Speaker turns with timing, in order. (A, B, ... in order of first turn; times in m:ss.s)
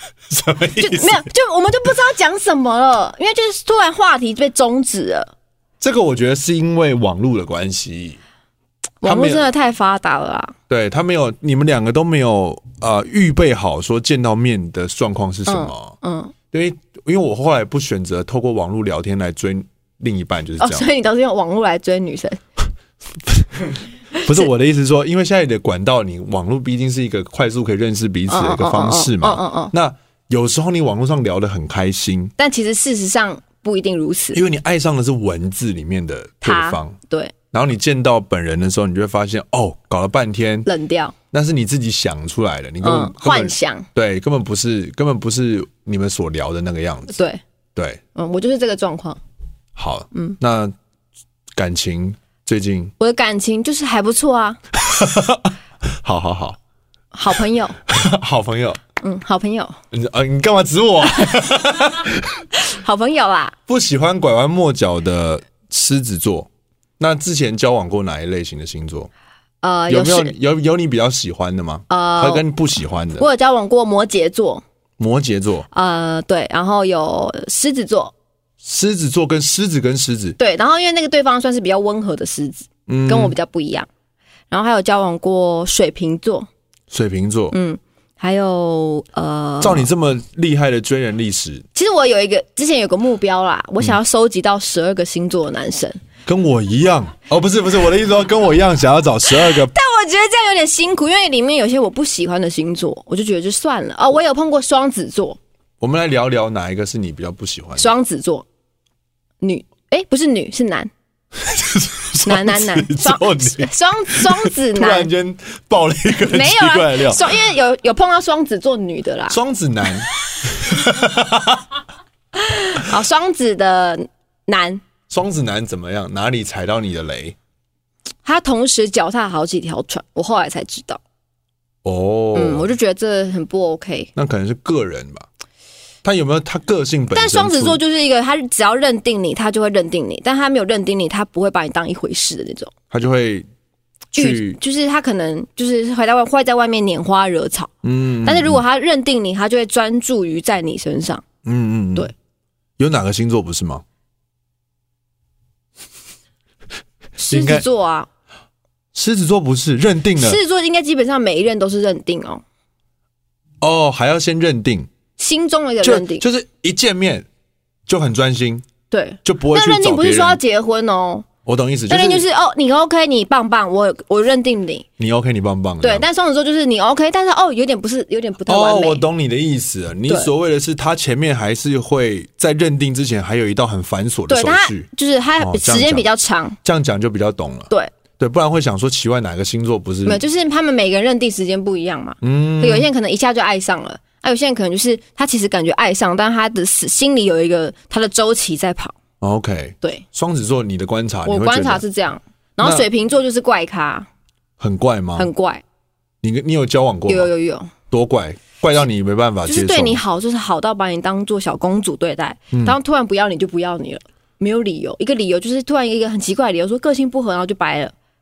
0:00.3-0:01.3 A
0:00.8-0:05.3 B
0:05.8-0:08.2 A
0:09.0-0:10.6 B
0:09.0-0:09.5 A
0:10.7-0:16.0 A
0:15.5-0:16.3 B
0:16.5-0:20.9 A
0:20.6-0:22.4 B
0:23.3-0:23.6 A
0:24.2-0:32.3 A
0:28.3-0:29.7 B
0:32.4-0:34.4 B
0:34.3-0:37.0 A
0:36.4-0:37.3 B
0:37.5-0:40.7 A
0:40.7-0:41.2 B
0:41.3-0:47.2 A
0:42.8-0:43.9 B
0:47.1-0:47.4 B
0:47.8-0:48.0 A
0:48.2-0:49.2 B
0:49.8-0:50.7 A
0:51.6-0:52.9 A
0:53.0-0:54.6 B
0:54.8-0:56.6 A
0:57.1-0:57.8 B
0:57.9-0:58.8 A
0:59.0-0:59.8 B
0:59.9-1:02.4 A
1:02.6-1:03.6 B
1:03.7-1:09.1 A
1:09.6-1:10.3 B
1:09.9-1:13.3 A
1:11.9-1:12.5 B
1:13.2-1:14.6 B
1:15.0-1:15.7 A
1:15.7-1:18.1 B
1:18.6-1:20.4 A
1:20.4-1:23.9 B
1:22.9-1:23.4 A
1:24.5-1:26.5 B
1:26.9-1:27.6 A
1:27.5-1:29.9 B
1:29.6-1:31.6 A
1:31.8-1:36.0 B
1:36.3-1:39.7 A
1:39.3-1:45.4 B
1:45.8-1:47.9 A
1:47.8-1:48.5 B
1:49.4-1:50.9 B
1:51.4-1:57.3 A
1:52.2-1:55.1 B
1:56.3-1:59.4 B
1:59.3-2:01.6 A
2:02.3-2:04.8 B
2:05.1-2:07.4 A
2:08.2-2:11.0 B
2:11.8-2:12.7 A
2:12.3-2:14.1 B
2:14.2-2:15.3 A
2:16.0-2:17.8 A
2:17.1-2:22.7 B
2:22.9-2:23.5 A
2:24.1-2:24.6 A
2:24.2-2:27.7 B
2:27.8-2:28.6 A
2:28.2-2:31.3 B
2:31.4-2:32.1 A
2:32.8-2:33.8 A
2:37.2-2:38.1 B
2:37.3-2:37.6 A
2:38.9-2:40.4 A
2:40.2-2:42.4 B
2:43.6-2:44.9 A
2:45.2-2:46.2 B
2:45.8-2:47.3 A
2:47.9-2:48.7 A
2:48.9-2:51.3 B
2:49.2-2:50.4 A
2:51.4-2:52.3 A
2:51.9-2:54.8 B
2:55.0-2:56.1 A
2:55.8-2:59.0 B
2:58.5-3:04.9 A
3:04.3-3:06.6 B
3:05.4-3:06.1 A
3:06.6-3:10.2 A
3:10.0-3:19.0 B
3:12.2-3:12.9 A
3:19.2-3:21.8 A
3:21.2-3:24.1 B
3:24.6-3:25.3 A
3:25.2-3:25.6 B
3:26.2-3:27.3 A
3:27.1-3:27.7 B
3:27.9-3:30.0 A
3:29.5-3:37.9 B
3:32.5-3:32.8 A